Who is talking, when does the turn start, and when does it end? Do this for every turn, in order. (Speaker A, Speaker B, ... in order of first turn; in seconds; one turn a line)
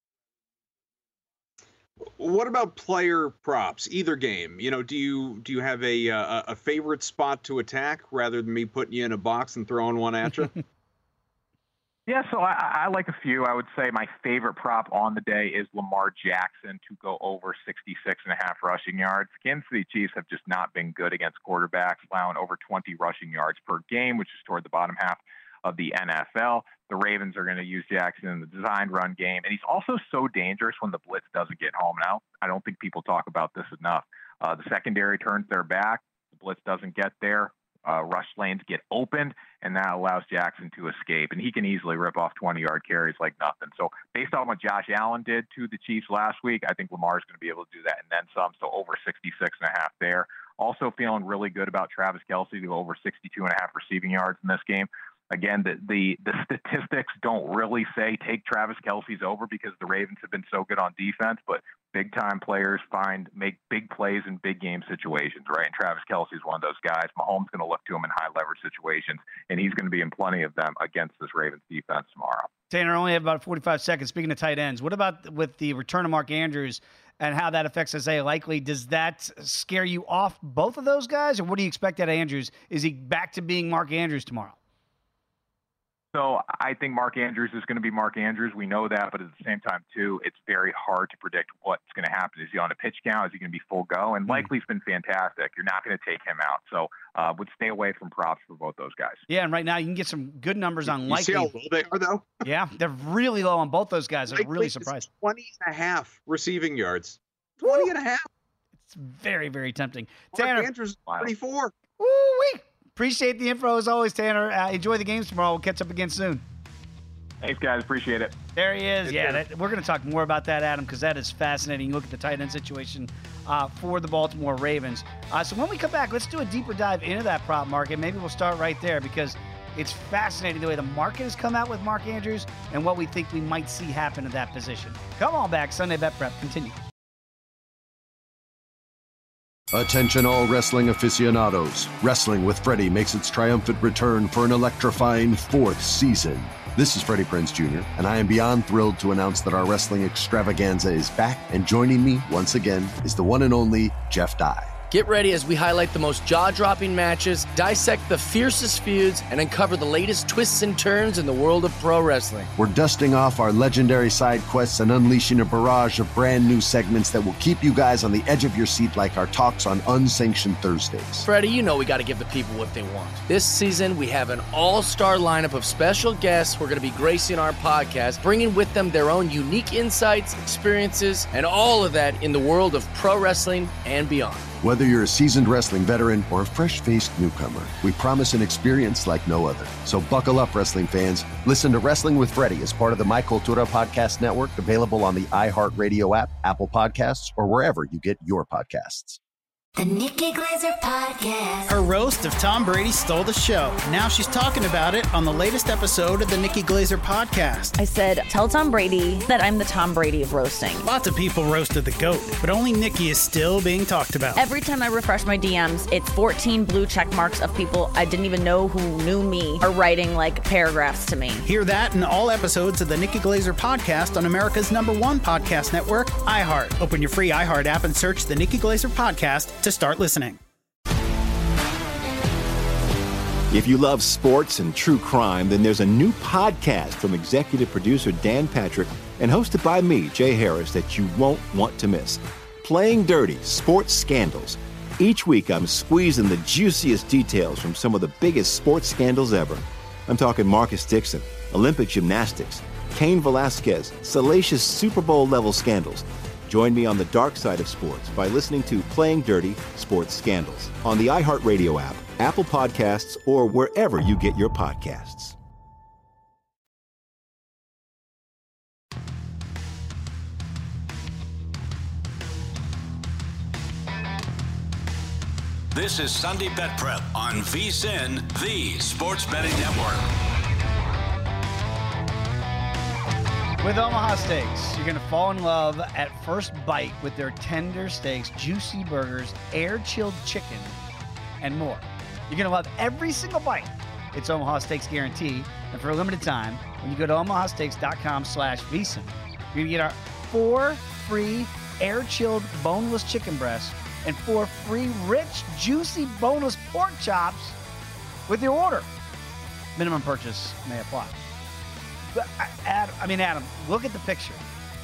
Speaker A: 2.1-10.6
Speaker B: 12.1-72.5
Speaker C: 72.7-84.6
Speaker B: 86.1-99.2
Speaker C: 99.3-101.5
Speaker A: 100.9-102.4
Speaker C: 102.4-105.0
Speaker A: 104.3-108.3
Speaker C: 107.6-107.9
Speaker C: 108.8-110.7
Speaker A: 110.3-111.7
Speaker C: 112.0-116.4
Speaker B: 117.4-118.3
Speaker C: 118.5-136.8
Speaker D: 139.7-154.7
Speaker E: 154.9-162.5
Speaker D: 162.6-171.2
Speaker E: 171.2-184.5
Speaker D: 184.6-199.2
Speaker F: 199.8-201.7
Speaker G: 201.7-207.7
Speaker H: 207.8-210.9
Speaker G: 210.8-214.4
Speaker H: 214.3-221.4
Speaker G: 221.4-230.4
Speaker I: 233.5-265.4
Speaker J: 275.7-280.1
Speaker C: 283.6-290.8
Speaker C: 291.4-307.6
Speaker C: 308.3-308.9
Speaker C: 309.8-311.2
Speaker C: 312.1-314.4